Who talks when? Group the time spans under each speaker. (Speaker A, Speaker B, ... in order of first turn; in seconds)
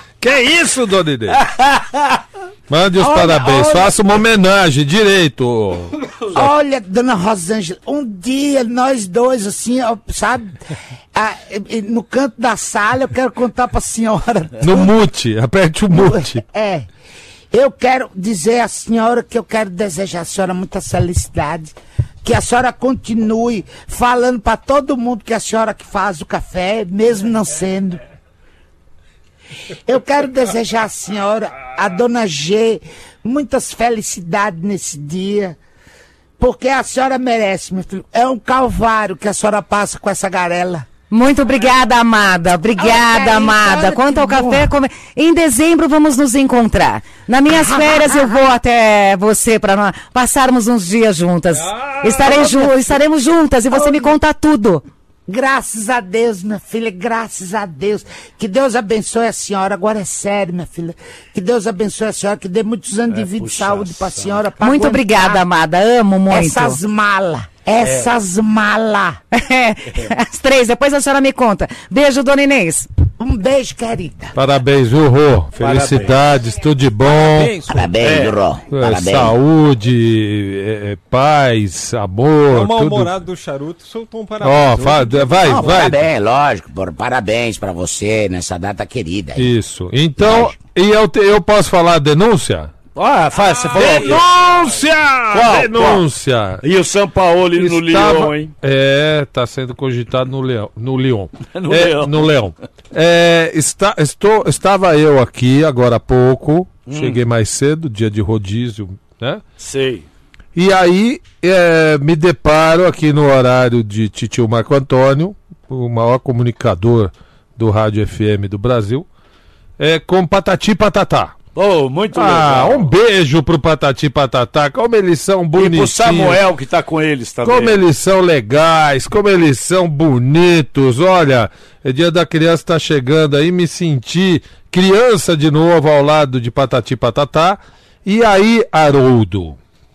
Speaker A: 0.2-1.4, 2.7-5.9, 14.6-16.4, 51.6-52.1, 74.3-77.5, 78.7-83.2, 84.4-86.0, 89.4-92.7, 93.7-96.6, 97.6-109.4, 110.5-119.0, 119.8-121.4, 122.1-126.4, 127.4-139.6
Speaker B: 1.3-2.2, 63.1-64.5, 67.8-68.1, 75.6-76.2, 78.0-78.4, 93.0-96.0, 96.6-98.5, 101.5-102.3, 106.9-107.2, 109.6-110.1, 121.5-122.9, 125.5-127.8
Speaker C: 3.0-4.0, 6.3-14.9, 15.9-16.9, 17.5-21.7, 22.2-28.0, 29.9-35.6, 36.4-40.9, 42.7-44.7, 47.5-48.4, 52.0-52.9, 53.7-54.1, 55.3-65.4, 66.3-69.2, 73.2-74.3, 77.7-79.3, 85.5-89.5, 90.2-90.6
Speaker D: 41.1-54.8, 64.6-66.8, 69.3-72.9
Speaker E: 77.0-77.9, 82.5-85.8, 93.5-94.2